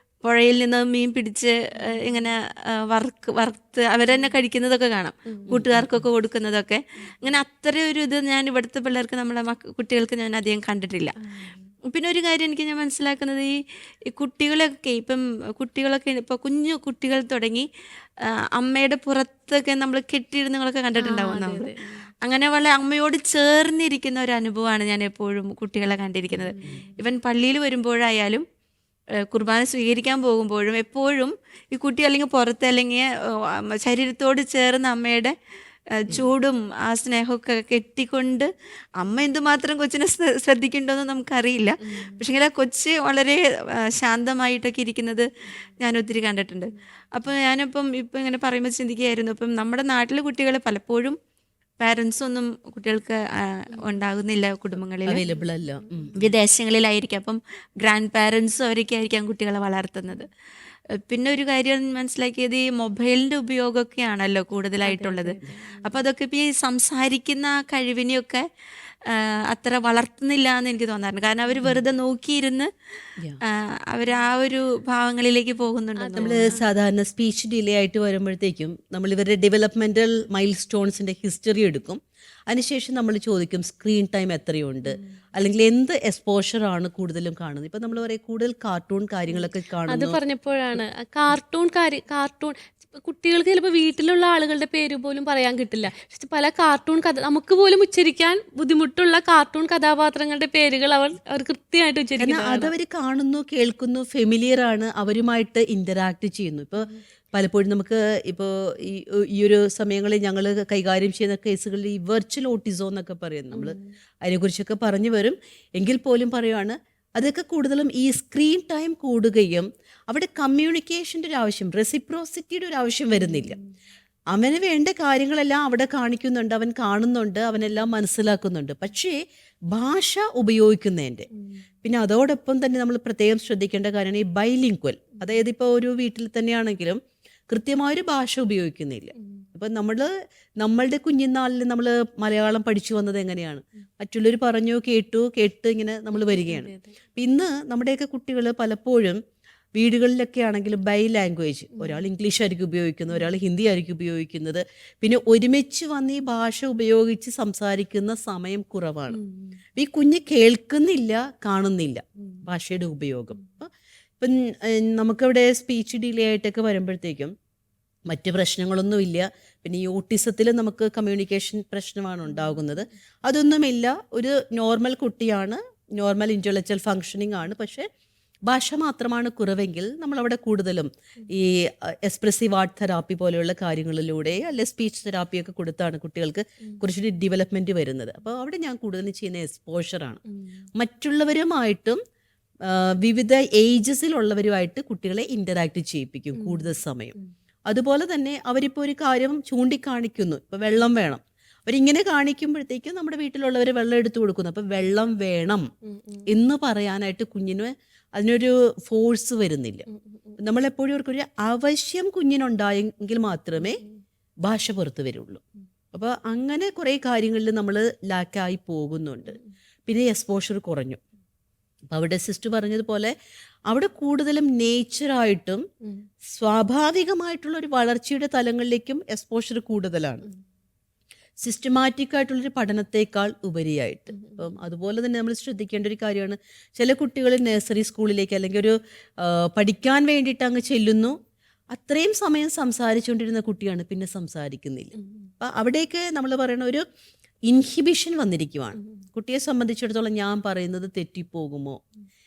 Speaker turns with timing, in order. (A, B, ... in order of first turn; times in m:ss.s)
0:00.2-0:11.2 A
0:01.8-0:02.3 B
0:05.5-0:06.0 C
0:11.2-0:11.6 B
0:11.9-0:17.7 A
0:18.2-0:21.7 A
0:21.0-0:22.1 B
0:22.2-0:28.4 A
0:26.4-0:26.9 B
0:29.3-0:35.3 A
0:36.0-0:51.2 A
0:41.8-0:42.2 B
0:51.8-0:55.2 A
0:55.1-0:56.3 C
0:55.3-0:56.1 B
0:56.2-1:00.3 A
1:01.1-1:08.4 A
1:04.8-1:06.0 B
1:09.1-1:12.7 A
1:13.4-1:16.6 A
1:16.0-1:16.6 B
1:16.2-1:30.2 C
1:29.9-1:42.7 B
1:42.2-2:03.6 C
1:53.6-1:53.8 B
2:03.2-2:03.6 B
2:04.3-2:09.2 C
2:09.7-2:11.3 C
2:11.8-2:29.2 C
2:26.1-2:27.0 B
2:29.8-2:39.2 C
2:39.1-2:39.6 B
2:39.8-2:47.3 C
2:48.1-2:57.9 C
2:58.5-3:10.2 C
3:10.8-3:12.0 C
3:12.6-3:17.2 C
3:16.4-3:16.7 B
3:17.7-3:25.6 C
3:25.9-3:26.3 B
3:26.3-3:29.8 C
3:29.9-3:30.4 B
3:30.4-3:33.8 C
3:34.4-3:35.4 C
3:35.9-3:41.0 C
3:41.9-3:43.1 C
3:43.7-3:45.6 C
3:46.2-3:50.3 C
3:51.4-4:01.2 C
4:01.7-4:06.8 C
4:07.5-4:11.8 C